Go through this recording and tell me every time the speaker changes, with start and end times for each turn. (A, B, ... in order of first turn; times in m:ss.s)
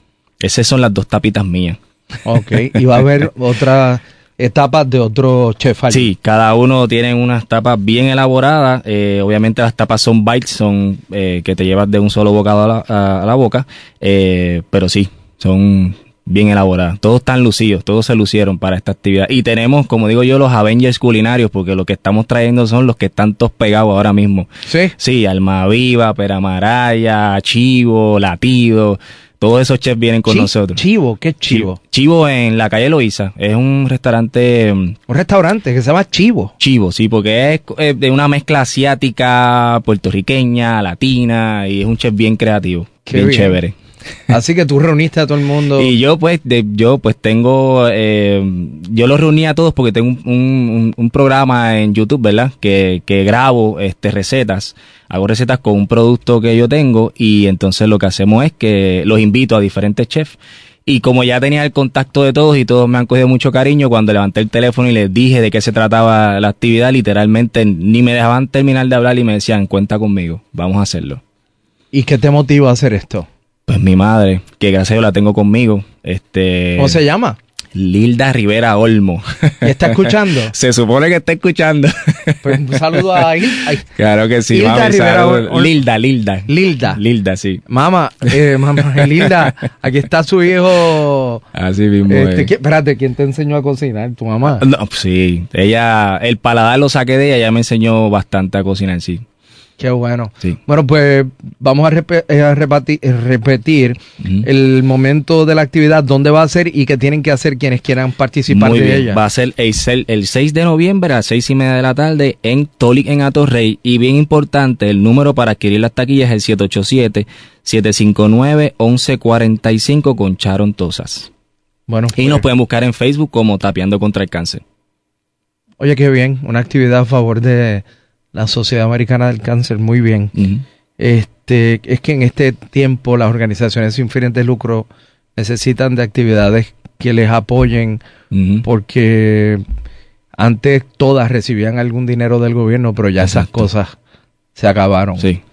0:00.4-0:01.8 A
0:02.2-0:06.1 B
0:05.9-0:30.8 A
0:24.6-0:24.9 B
0:30.3-0:31.8 B
0:31.5-0:35.0 A
0:35.1-0:36.5 B
0:36.6-0:43.7 A
0:43.1-0:43.6 B
0:44.3-0:45.9 B
0:45.7-1:11.2 A
1:11.9-1:13.3 B
1:13.7-1:17.0 A
1:16.8-1:17.4 B
1:17.7-1:23.2 A
1:19.6-1:20.5 B
1:22.4-1:23.8 B
1:23.8-1:27.6 A
1:24.5-1:25.8 B
1:26.5-1:27.0 B
1:27.7-1:31.4 B
1:28.9-1:29.4 A
1:31.5-1:32.5 A
1:32.1-1:34.6 B
1:34.6-1:39.2 A
1:39.8-1:49.2 B
1:48.5-2:01.3 A
2:01.9-2:02.4 B
2:02.1-2:04.6 A
2:05.8-2:10.3 B
2:10.3-2:10.6 A
2:11.0-2:18.0 B
2:18.3-2:18.6 A
2:18.6-2:19.6 B
2:20.4-2:23.9 B
2:23.2-2:23.5 A
2:24.5-2:25.3 B